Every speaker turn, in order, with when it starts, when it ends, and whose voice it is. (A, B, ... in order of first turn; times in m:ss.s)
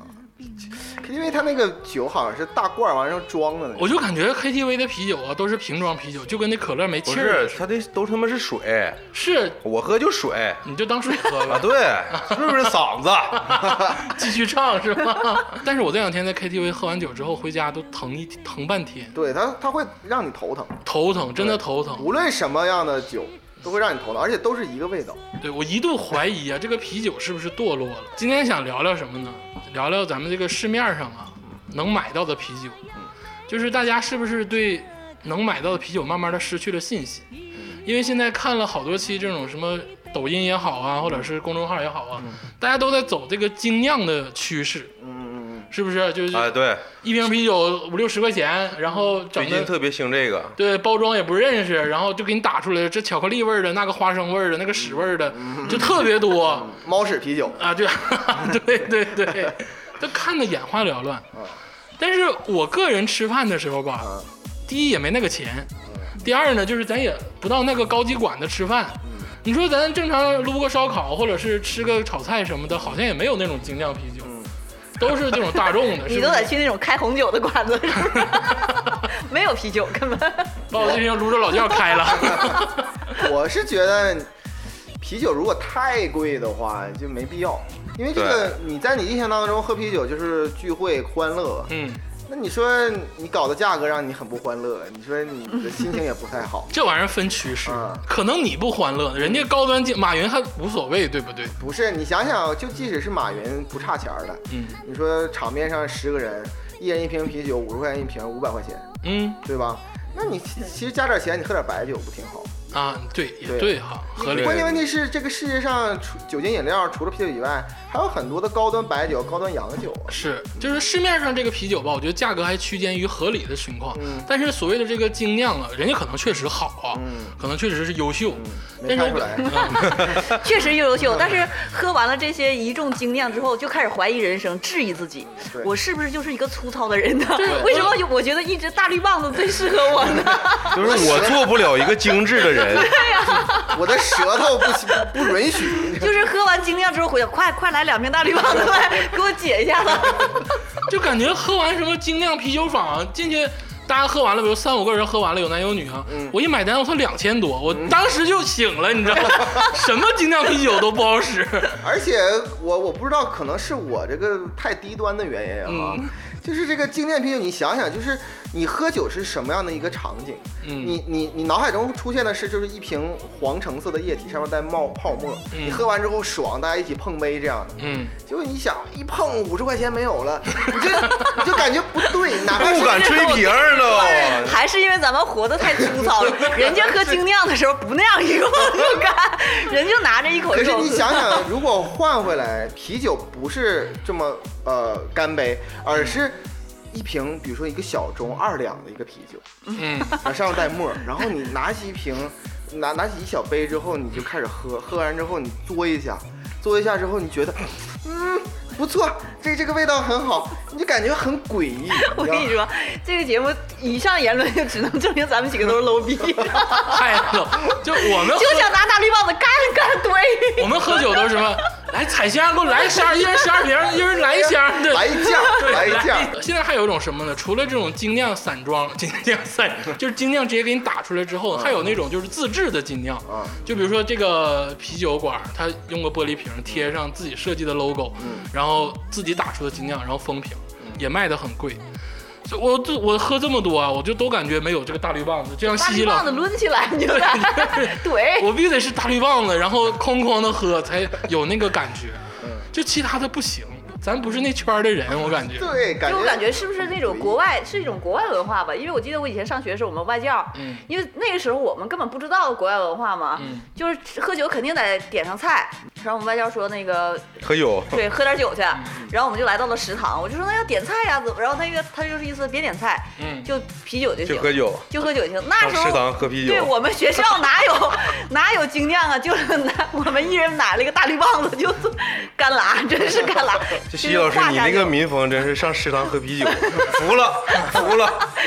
0:00.1-0:04.0 A
0:03.8-0:07.6 B
0:07.0-0:09.0 C
0:09.1-0:09.6 B
0:09.6-0:10.6 C
0:10.6-0:12.6 B
0:11.4-0:13.9 C
0:13.5-0:19.1 B
0:19.1-0:20.8 A
0:20.8-0:22.1 B
0:21.4-0:25.2 A
0:25.4-0:32.8 B
0:33.5-0:37.3 B
0:37.8-0:44.9 B
0:45.0-0:45.7 A
0:45.7-0:49.7 B
0:46.3-0:46.9 C
0:49.3-0:50.6 C
0:50.6-0:56.7 B
0:54.8-0:55.9 A
0:56.5-0:57.6 A
0:57.6-1:01.3 B
1:02.0-1:04.1 B
1:04.0-1:04.3 A
1:04.7-1:14.3 B
1:05.8-1:06.1 A
1:09.0-1:09.3 A
1:14.2-1:14.5 A
1:15.0-1:16.5 B
1:16.0-1:20.9 D
1:20.7-1:23.0 B
1:22.2-1:22.6 A
1:23.1-1:24.3 A
1:25.0-1:31.7 A
1:28.1-1:28.5 C
1:31.7-1:32.0 B
1:32.2-1:36.7 A
1:36.7-1:41.5 B
1:37.6-1:38.0 A
1:39.2-1:39.5 A
1:41.6-1:48.8 A
1:44.5-1:44.8 B
1:49.0-1:49.4 B
1:49.4-1:52.5 A
1:52.7-1:54.8 B
1:53.4-2:00.8 A
1:54.3-1:54.7 C
2:00.1-2:10.3 B
2:03.9-2:04.3 A
2:06.9-2:07.4 A
2:08.3-2:10.2 A
2:09.5-2:21.2 D
2:15.4-2:15.7 A
2:17.4-2:18.0 B
2:17.4-2:17.9 A
2:20.7-2:22.9 C
2:20.7-2:21.5 A
2:22.4-2:23.8 D
2:23.7-2:26.1 A
2:25.9-2:30.4 D
2:30.8-2:41.8 B
2:36.0-2:36.4 A
2:37.7-2:37.9 A
2:41.8-3:03.1 A
2:45.6-2:46.1 B
2:50.6-2:51.0 B
2:55.5-2:55.8 B
2:57.8-2:58.1 B
3:02.6-3:04.6 C
3:02.6-3:11.5 D
3:10.5-3:19.4 A
3:19.8-3:20.2 B
3:19.8-3:20.2 D
3:20.1-3:32.6 A
3:31.9-3:37.1 D
3:36.8-3:38.7 B
3:38.0-3:41.2 D
3:40.6-4:01.8 B
3:44.7-3:46.4 A
3:51.5-3:51.8 A
3:53.2-3:53.6 A
3:58.2-3:58.5 A
4:02.4-4:06.3 B
4:05.7-4:08.5 D
4:07.1-4:15.7 B
4:12.4-4:12.7 A
4:15.5-4:17.4 A
4:16.0-4:45.0 D
4:20.5-4:20.9 B
4:23.4-4:23.7 B
4:27.4-4:28.0 C
4:33.2-4:33.5 B
4:34.2-4:34.8 C
4:35.6-4:36.7 C
4:43.9-4:48.3 C